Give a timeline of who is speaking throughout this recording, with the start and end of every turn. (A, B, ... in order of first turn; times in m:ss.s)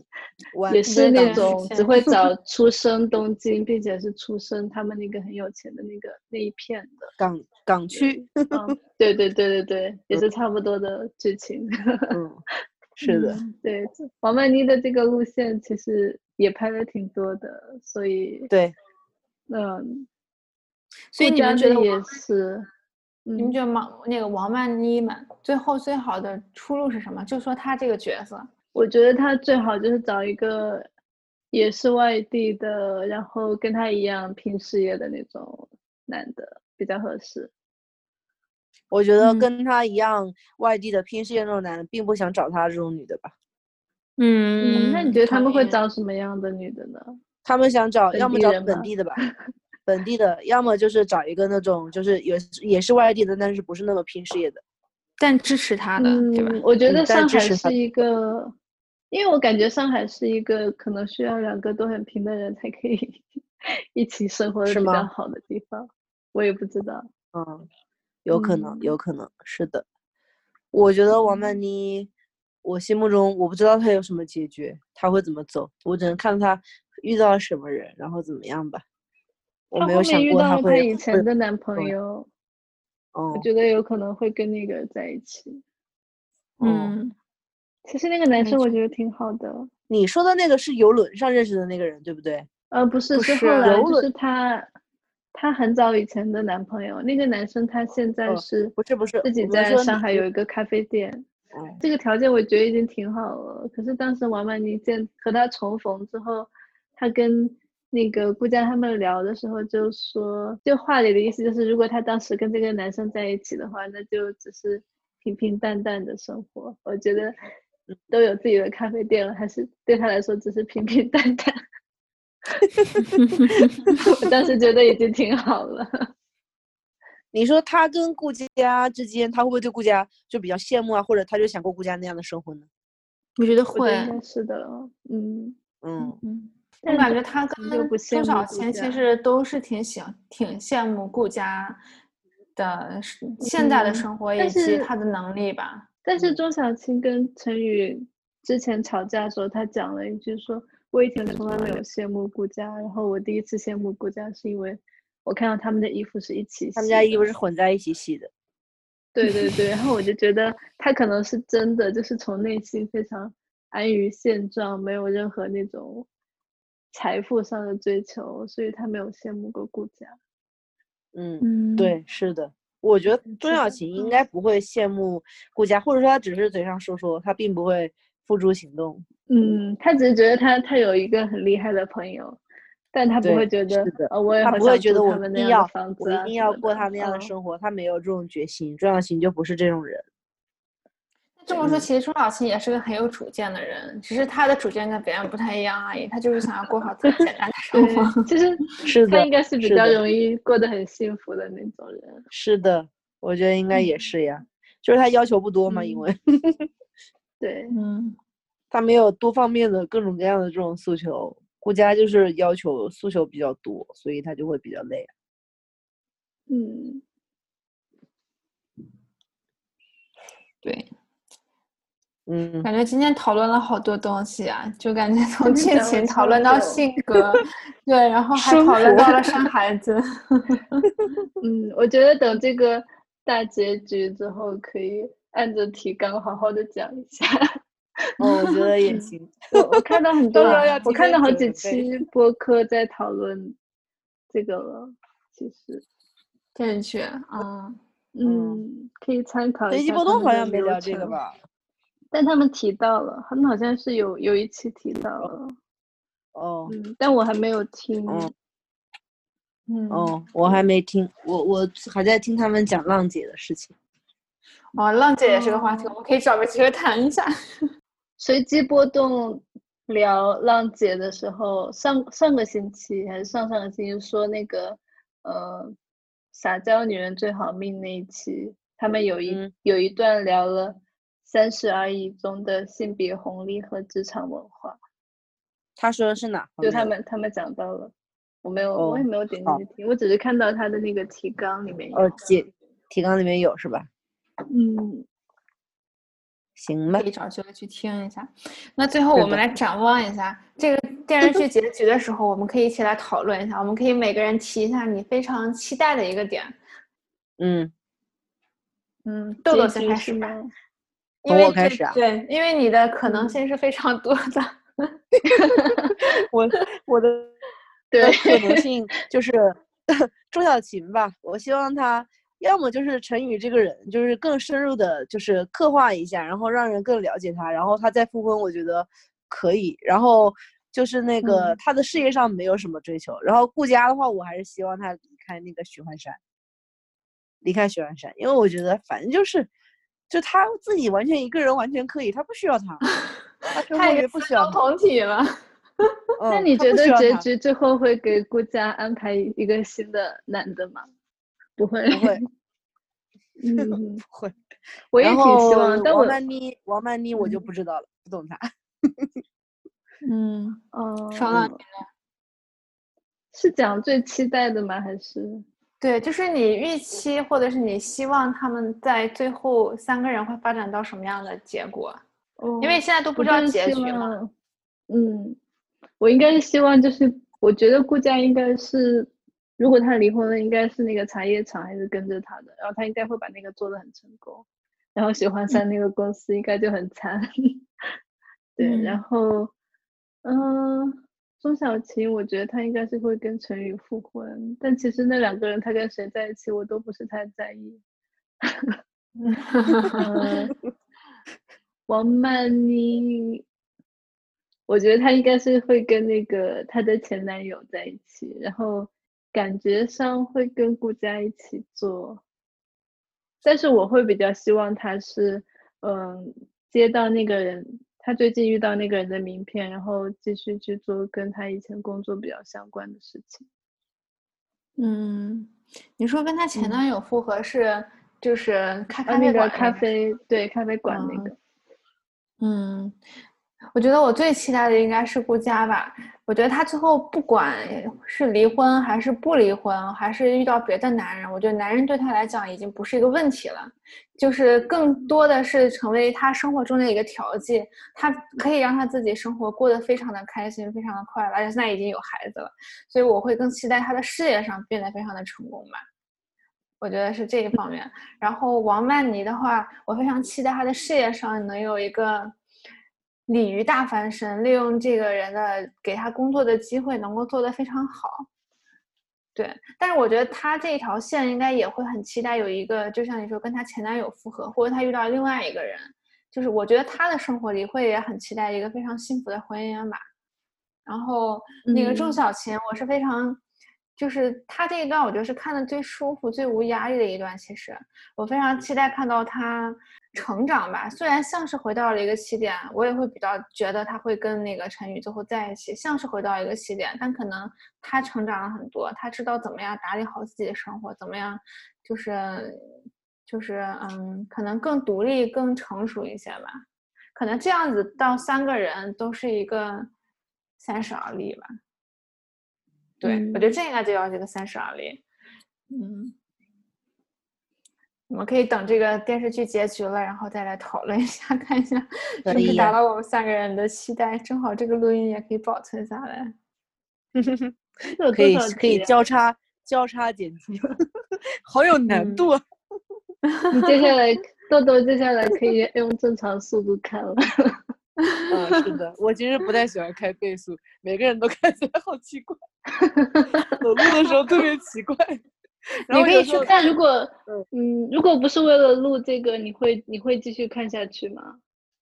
0:00.5-0:01.6 A
0:00.7-0:07.1 B
0:00.8-0:02.2 C
0:07.2-0:08.7 A
0:07.9-0:12.2 B
0:12.1-0:12.4 A
0:13.0-0:13.4 A
0:13.0-0:13.5 C
0:13.6-0:18.5 B
0:18.5-0:18.8 A
0:19.5-0:20.1 B
0:21.1-0:22.2 C
0:21.2-0:22.7 B
0:23.3-0:23.6 B
0:23.4-0:28.5 C
0:28.7-0:30.9 B
0:31.5-0:37.5 B
0:38.9-0:43.3 A
0:39.2-0:39.5 C
0:44.2-0:45.8 C
0:44.6-0:47.2 B
0:47.4-0:49.2 A
0:48.1-0:49.3 B
0:49.9-0:54.6 A
0:55.2-0:56.6 C
0:56.0-0:58.6 B
0:56.9-0:57.7 A
0:59.1-1:03.3 B
1:03.9-1:07.1 B
1:04.7-1:05.1 A
1:07.3-1:07.7 A
1:08.2-1:09.8 A
1:08.3-1:08.9 B
1:10.7-1:12.1 A
1:12.6-1:18.8 A
1:19.7-1:21.2 A
1:19.8-1:22.3 B
1:23.1-1:23.5 A
1:23.3-1:25.6 B
1:26.6-1:27.2 C
1:26.6-1:27.0 A
1:27.9-1:29.7 B
1:28.4-1:28.8 C
1:29.9-1:32.5 A
1:32.7-1:34.7 B
1:33.2-1:33.8 C
1:33.6-1:34.1 A
1:35.3-1:41.3 B
1:38.3-1:40.2 A
1:41.5-1:41.8 A
1:41.8-1:57.4 B
1:58.1-2:01.6 B
2:02.8-2:03.0 A
2:03.1-2:04.0 C
2:04.0-2:06.1 B
2:07.3-2:12.7 A
2:13.4-2:14.2 C
2:13.7-2:15.6 B
2:15.8-2:16.2 A
2:16.0-2:21.8 C
2:16.8-2:19.0 B
2:22.6-2:25.9 C
2:23.4-2:24.9 B
2:26.0-2:37.3 B
2:31.3-2:31.8 A
2:36.8-2:38.3 A
2:39.2-2:46.1 B
2:46.9-2:50.2 B
2:51.1-2:59.0 A
2:51.4-2:51.9 B
2:53.3-2:54.1 C
2:59.3-3:02.4 B
3:02.9-3:07.3 B
3:03.2-3:10.0 A
3:11.4-3:18.2 C
3:11.6-3:11.9 A
3:17.7-3:22.2 B
3:18.8-3:20.0 A
3:22.3-3:26.7 A
3:25.7-3:26.0 B
3:27.4-3:27.8 B
3:27.7-3:28.2 C
3:28.7-3:35.1 A
3:36.5-3:37.0 B
3:40.6-3:40.9 C
3:42.3-3:42.7 A
3:42.6-3:50.9 C
3:45.4-3:46.9 B
3:48.4-3:49.5 A
3:51.4-3:57.4 B
3:58.2-4:03.6 B
3:58.2-4:01.9 A
4:00.4-4:00.8 C
4:04.3-4:05.8 B
4:06.6-4:07.8 C
4:08.2-4:11.2 B
4:08.2-4:08.6 A
4:09.7-4:11.4 A
4:12.1-4:15.6 B
4:16.4-4:16.7 A
4:16.7-4:18.3 B
4:19.7-4:20.6 C
4:19.9-4:23.7 A
4:24.8-4:27.3 C
4:25.2-4:25.9 B
4:28.2-4:35.8 B
4:36.3-4:44.8 B
4:39.3-4:39.5 A
4:45.8-4:46.9 A
4:46.6-4:52.2 B
4:48.8-4:49.6 A
4:51.9-4:53.9 A
4:54.5-4:55.1 B
4:56.6-4:57.1 A
4:56.9-5:06.6 C
4:59.1-4:59.5 A
5:07.4-5:07.7 A
5:09.0-5:10.4 C
5:09.5-5:10.5 B
5:11.2-5:14.9 C
5:11.3-5:12.0 A
5:13.0-5:13.4 B
5:15.4-5:16.0 B
5:16.3-5:17.4 A
5:17.9-5:18.6 B
5:18.0-5:36.2 A
5:31.2-5:31.6 B
5:37.4-5:39.5 A
5:40.1-5:42.8 A
5:43.5-5:45.4 C
5:43.5-5:44.6 A
5:46.2-5:47.3 A
5:46.3-5:50.9 B
5:51.6-5:52.3 B
5:51.9-5:52.2 A
5:53.4-5:54.0 B
5:53.6-5:54.4 A
5:54.9-5:56.2 B
5:55.0-5:59.1 A
5:57.2-5:57.4 B
6:00.0-6:01.7 C
6:00.7-6:01.6 B
6:03.3-6:05.5 B
6:05.8-6:12.0 C
6:12.4-6:14.3 B
6:12.6-6:14.2 C
6:14.9-6:15.4 B
6:16.0-6:27.7 B
6:28.6-6:29.5 B
6:28.6-6:29.0 C
6:30.2-6:37.8 B
6:38.4-6:38.8 B
6:39.2-6:40.1 C
6:39.9-6:40.6 B
6:41.9-6:43.4 B
6:44.7-6:52.2 B
6:53.4-7:03.5 B
7:04.8-7:09.8 C
7:06.6-7:06.8 B
7:09.1-7:11.4 B
7:10.9-7:11.3 C
7:12.4-7:13.0 C
7:13.7-7:35.8 C
7:36.8-7:42.4 C
7:43.3-7:48.3 C
7:49.4-8:00.0 C
8:00.9-8:03.4 C
8:01.7-8:02.2 B
8:04.0-8:22.7 C
8:23.3-8:26.6 C
8:27.2-8:29.9 C
8:30.6-8:31.5 C
8:33.0-8:35.0 C
8:33.0-8:33.5 B
8:35.7-8:36.2 C
8:38.1-8:46.3 C
8:42.3-8:42.8 A
8:42.3-8:42.6 B
8:47.2-8:47.6 A
8:47.9-8:49.0 B
8:48.1-8:52.4 A
8:51.9-8:52.3 C
8:53.4-8:53.7 C
8:53.5-8:57.6 B
8:58.0-8:58.8 C
8:58.3-9:02.4 A
9:02.8-9:03.5 B
9:03.6-9:05.3 A
9:05.9-9:06.5 A
9:05.9-9:06.7 C
9:06.4-9:11.4 B